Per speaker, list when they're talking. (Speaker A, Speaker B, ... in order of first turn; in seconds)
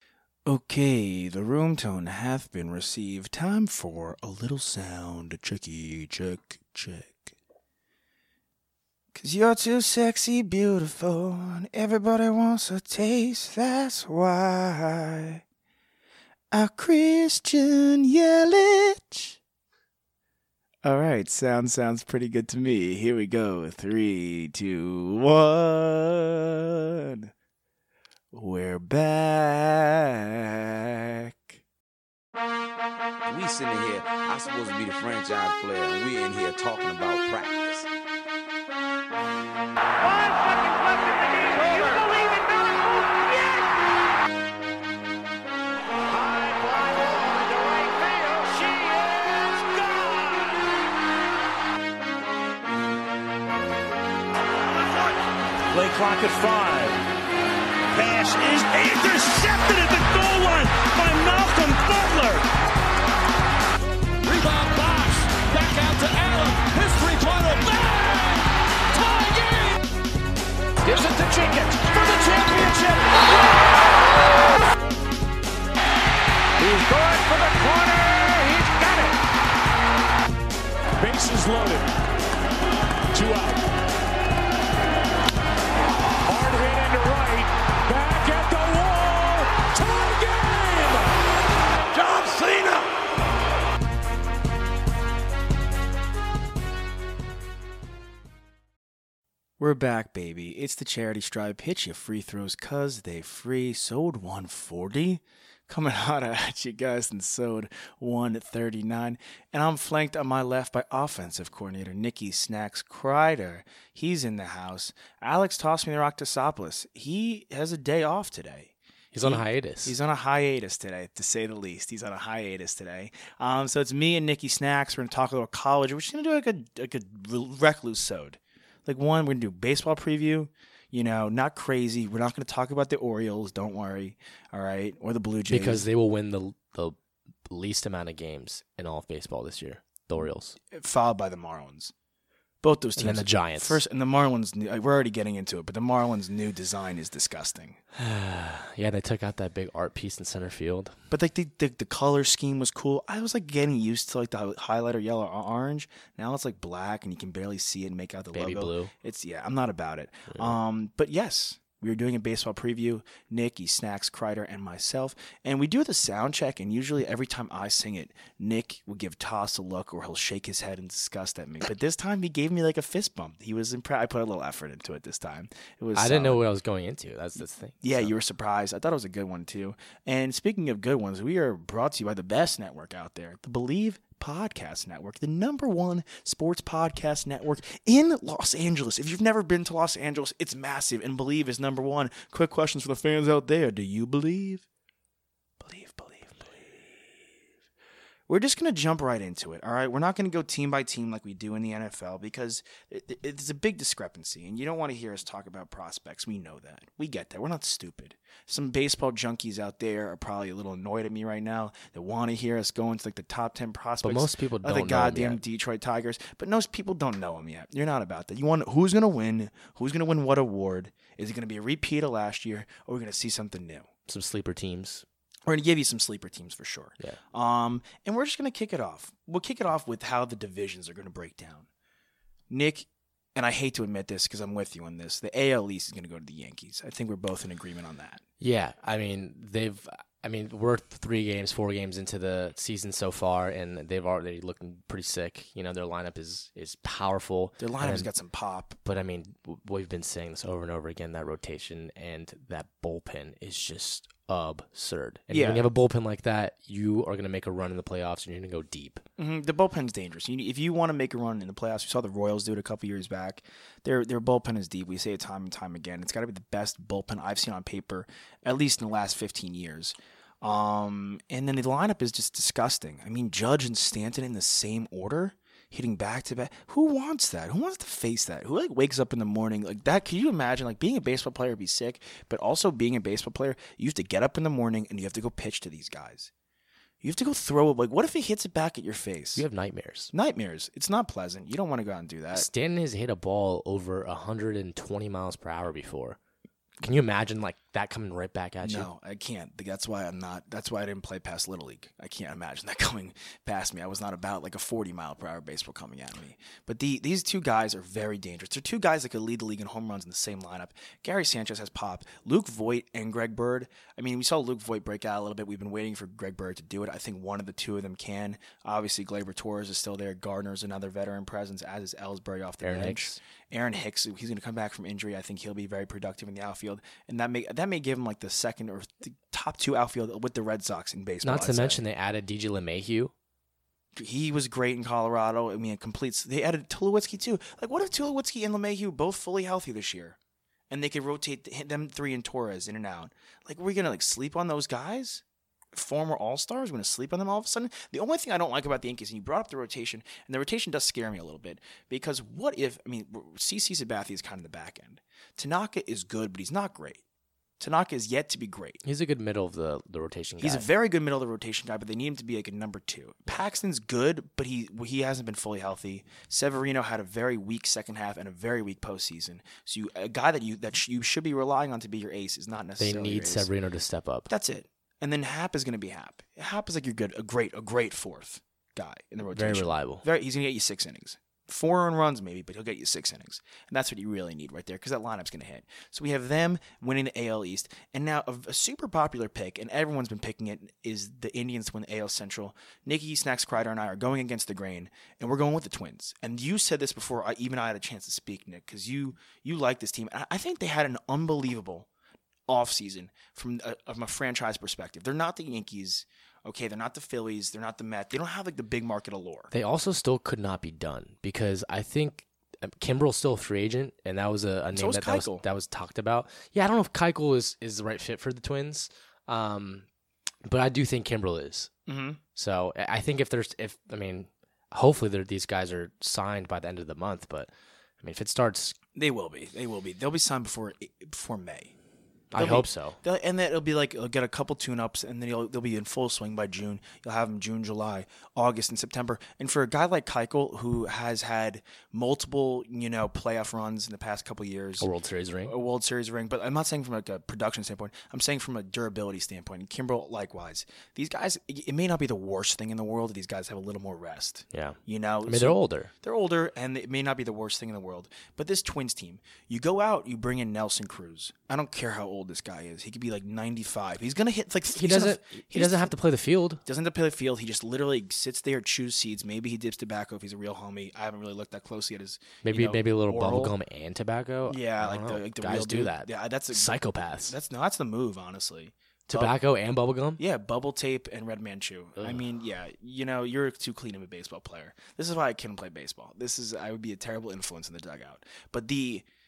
Speaker A: 0.5-7.3, 9.1-15.4, 16.5-19.4, 20.8-27.3, 28.3-31.6, 92.1-92.8, 99.6-135.9, 140.7-141.9, 142.6-147.8, 151.1-176.4, 177.8-194.7, 195.6-197.4, 198.3-223.9, 225.4-231.7, 232.5-238.2, 247.6-248.8, 255.3-255.7, 259.2-286.3, 287.0-289.4, 290.1-292.5, 298.6-331.8, 333.9-340.2, 340.7-357.0, 357.6-358.8, 360.4-373.5, 374.3-401.9, 402.5-409.5, 414.7-415.4, 421.9-422.2, 428.9-431.7, 432.3-444.9, 445.4-465.9, 466.6-473.5, 474.5-479.3, 480.2-489.1
Speaker B: 33.2-37.9
Speaker C: 40.0-43.8
Speaker D: 41.6-42.0, 46.1-50.6, 55.7-57.0, 57.9-62.5, 64.2-69.8, 70.8-73.2, 76.6-79.2, 81.0-81.9, 83.1-83.6, 86.2-91.1, 91.9-92.2
Speaker E: 119.1-120.0, 135.5-140.6, 142.9-143.8, 147.9-150.9, 158.3-158.9, 160.3-160.6, 175.9-178.1, 214.0-215.4, 224.1-225.0, 238.4-248.1, 248.8-259.0, 289.3-290.1, 292.3-296.2, 296.8-298.9, 322.6-323.2, 331.2-333.1, 358.8-360.6, 372.8-374.3, 379.3-380.0, 409.5-419.9, 420.4-421.7, 422.3-428.8, 432.3-433.0, 444.8-445.5, 454.5-455.9, 464.7-466.6, 472.4-477.4, 479.1-480.2, 482.0-482.2